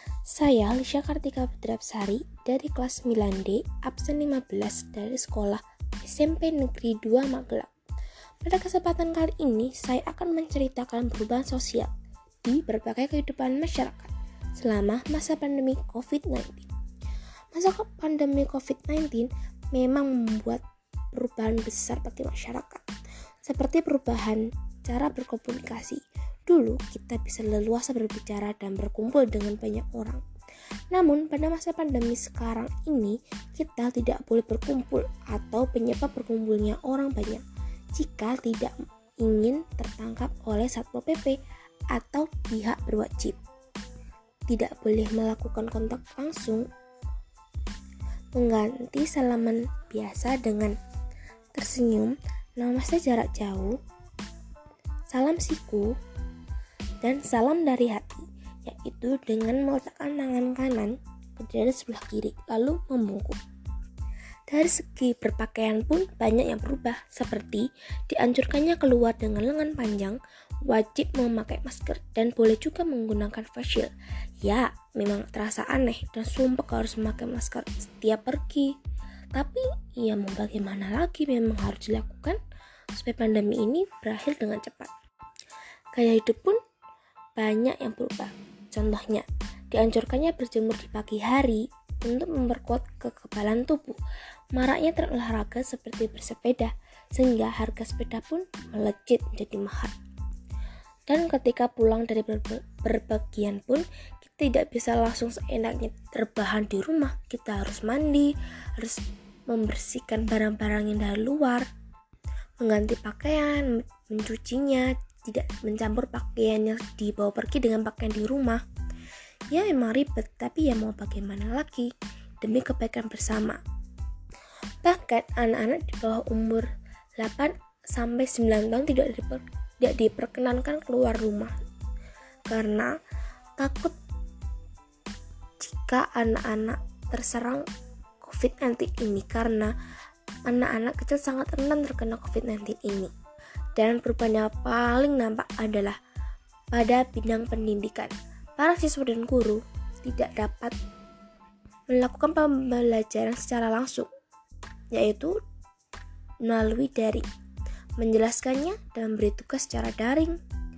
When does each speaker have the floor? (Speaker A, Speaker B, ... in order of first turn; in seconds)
Speaker A: 0.3-7.7, 8.4-11.9, 12.4-16.7, 17.5-20.6, 21.1-22.8, 23.4-30.2, 30.9-37.4, 38.0-41.4, 41.9-43.4, 44.5-46.7, 48.4-50.8, 51.5-53.8, 55.1-56.0, 57.0-63.4, 64.5-78.7, 79.3-82.4, 82.9-84.9, 85.9-86.6, 87.4-94.0, 94.5-99.9, 101.1-111.7, 112.6-118.6, 119.5-123.6, 124.8-131.5, 132.5-132.9, 133.6-133.9, 135.6-137.7, 138.2-139.7, 140.5-143.1, 143.8-146.0, 146.7-150.8, 151.9-154.1, 154.9-155.3, 156.4-157.3, 158.0-160.4